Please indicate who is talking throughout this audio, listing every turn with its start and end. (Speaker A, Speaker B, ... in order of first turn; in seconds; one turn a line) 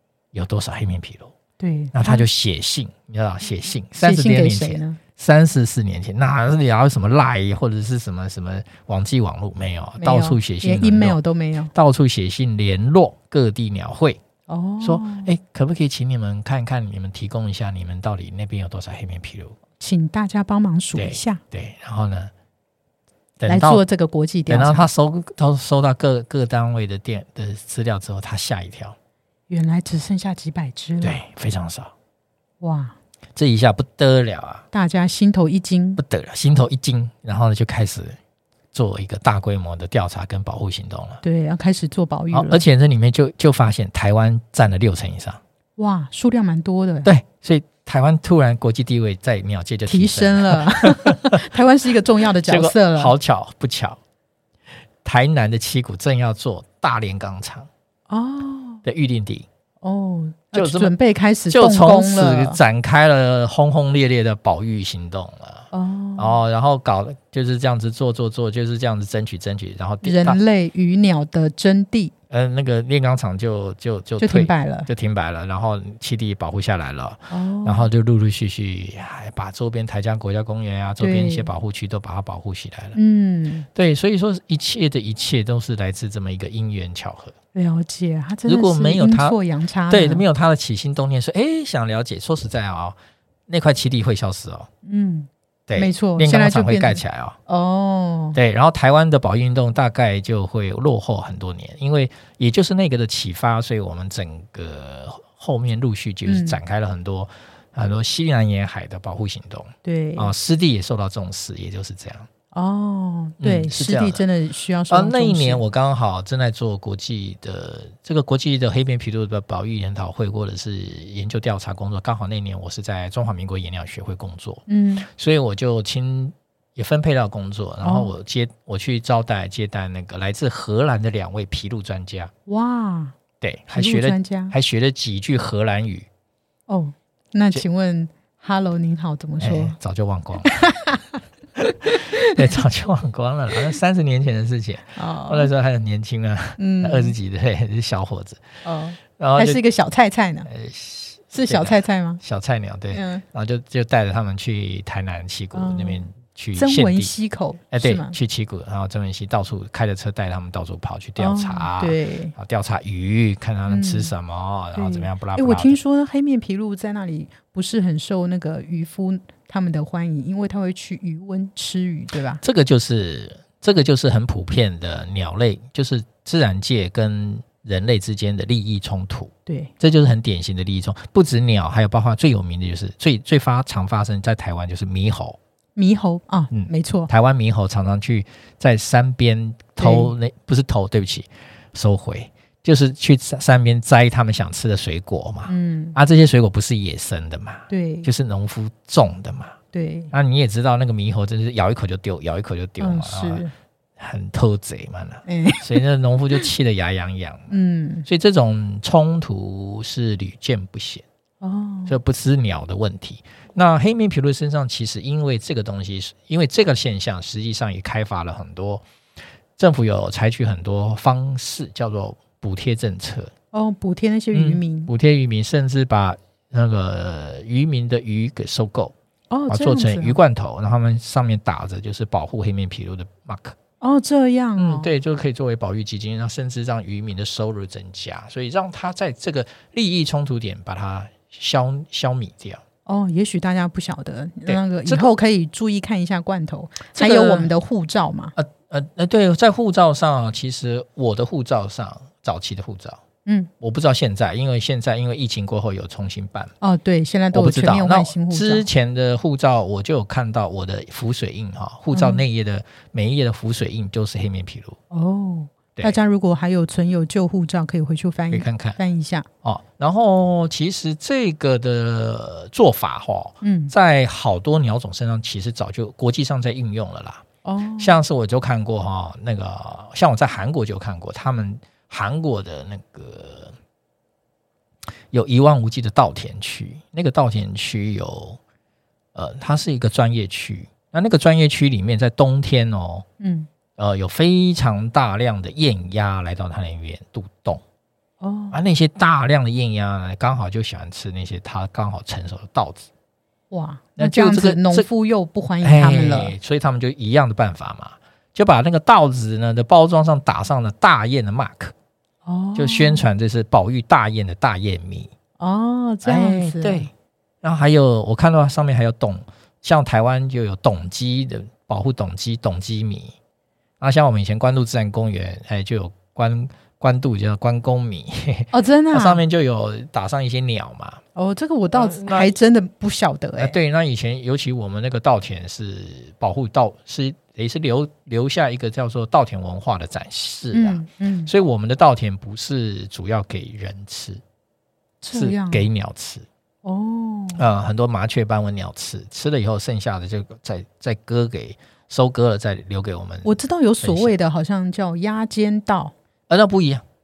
Speaker A: 0.3-1.3
Speaker B: 1.6-2.3
Speaker A: 1.9-11.2
Speaker B: 4.0-5.0
Speaker B: 10.0-11.7
Speaker A: 11.7-14.2
Speaker B: 14.5-15.3
Speaker A: 14.8-19.6
Speaker B: 19.8-21.4
Speaker A: 20.9-22.3
Speaker A: 23.4-23.8
Speaker B: 23.5-24.9
Speaker A: 24.5-29.0
Speaker B: 29.5-31.2
Speaker A: 31.0-31.9
Speaker B: 32.6-33.0
Speaker A: 33.4-34.7
Speaker B: 34.7-36.0
Speaker A: 36.0-38.2
Speaker A: 38.7-41.2
Speaker B: 41.2-42.6
Speaker A: 42.3-45.4
Speaker B: 45.8-47.1
Speaker A: 47.0-51.4
Speaker B: 49.9-53.1
Speaker A: 52.4-54.0
Speaker A: 55.0-57.7
Speaker B: 58.1-58.8
Speaker A: 58.9-59.5
Speaker B: 59.8-62.6
Speaker A: 60.5-60.9
Speaker A: 61.5-70.4
Speaker B: 65.7-66.4
Speaker B: 70.0-72.1
Speaker A: 72.3-83.0
Speaker B: 74.2-74.9
Speaker B: 77.3-77.9
Speaker B: 81.0-81.5
Speaker B: 82.9-83.7
Speaker A: 83.8-87.3
Speaker B: 87.5-90.2
Speaker A: 88.5-89.4
Speaker A: 89.9-93.0
Speaker A: 93.5-94.7
Speaker B: 94.8-98.4
Speaker A: 95.7-97.4
Speaker A: 98.3-112.3
Speaker B: 106.2-106.6
Speaker B: 109.8-110.3
Speaker B: 112.5-115.6
Speaker A: 113.4-114.2
Speaker A: 114.9-132.3
Speaker B: 124.7-125.1
Speaker B: 127.8-128.1
Speaker B: 132.5-133.2
Speaker A: 133.4-136.1
Speaker B: 133.7-134.5
Speaker B: 136.7-139.8
Speaker A: 139.4-140.5
Speaker B: 140.4-141.2
Speaker B: 141.7-142.6
Speaker A: 141.9-148.4
Speaker B: 144.9-145.5
Speaker B: 146.6-147.1
Speaker B: 148.6-150.5
Speaker A: 149.2-149.6
Speaker A: 150.5-157.1
Speaker B: 151.3-152.2
Speaker B: 152.9-153.2
Speaker B: 155.5-156.0
Speaker B: 156.6-158.1
Speaker A: 157.7-165.8
Speaker B: 161.2-162.3
Speaker B: 163.7-164.1
Speaker B: 164.7-172.4
Speaker A: 172.4-185.4
Speaker B: 179.4-179.7
Speaker B: 185.8-187.1
Speaker A: 186.5-199.6
Speaker B: 189.8-190.1
Speaker B: 195.5-196.0
Speaker B: 197.7-198.1
Speaker B: 199.7-200.1
Speaker A: 200.1-203.4
Speaker B: 202.8-203.5
Speaker A: 204.0-207.5
Speaker B: 205.2-205.8
Speaker B: 207.5-208.1
Speaker A: 208.1-211.1
Speaker B: 211.4-211.9
Speaker A: 211.9-218.8
Speaker A: 219.6-223.3
Speaker B: 223.5-224.9
Speaker A: 224.3-228.9
Speaker B: 229.3-230.2
Speaker A: 229.5-233.6
Speaker B: 233.8-234.9
Speaker A: 234.6-242.6
Speaker B: 242.9-248.3
Speaker A: 244.5-245.1
Speaker A: 246.9-247.5
Speaker A: 248.4-253.0
Speaker B: 253.2-253.5
Speaker A: 253.6-256.5
Speaker B: 256.6-258.6
Speaker A: 257.3-264.8
Speaker B: 261.9-262.2
Speaker B: 264.9-269.3
Speaker A: 268.3-268.8
Speaker A: 269.4-277.2
Speaker B: 273.4-273.7
Speaker B: 277.4-278.0
Speaker A: 277.8-283.5
Speaker A: 285.1-288.4
Speaker A: 289.1-293.1
Speaker B: 293.2-293.5
Speaker A: 293.8-297.6
Speaker B: 298.2-298.6
Speaker A: 298.5-302.9
Speaker B: 303.5-306.4
Speaker A: 304.0-304.9
Speaker A: 305.6-311.7
Speaker B: 312.2-313.0
Speaker A: 312.5-315.1
Speaker B: 315.4-316.9
Speaker A: 316.0-316.9
Speaker A: 317.4-323.1
Speaker A: 323.8-331.0
Speaker B: 328.5-329.2
Speaker B: 331.1-333.6
Speaker A: 331.7-332.3
Speaker A: 333.4-344.2
Speaker B: 340.5-341.3
Speaker B: 345.0-345.7
Speaker A: 345.1-346.2
Speaker B: 346.6-347.4
Speaker A: 347.4-353.3
Speaker B: 353.2-355.9
Speaker A: 353.8-354.1
Speaker A: 356.3-356.8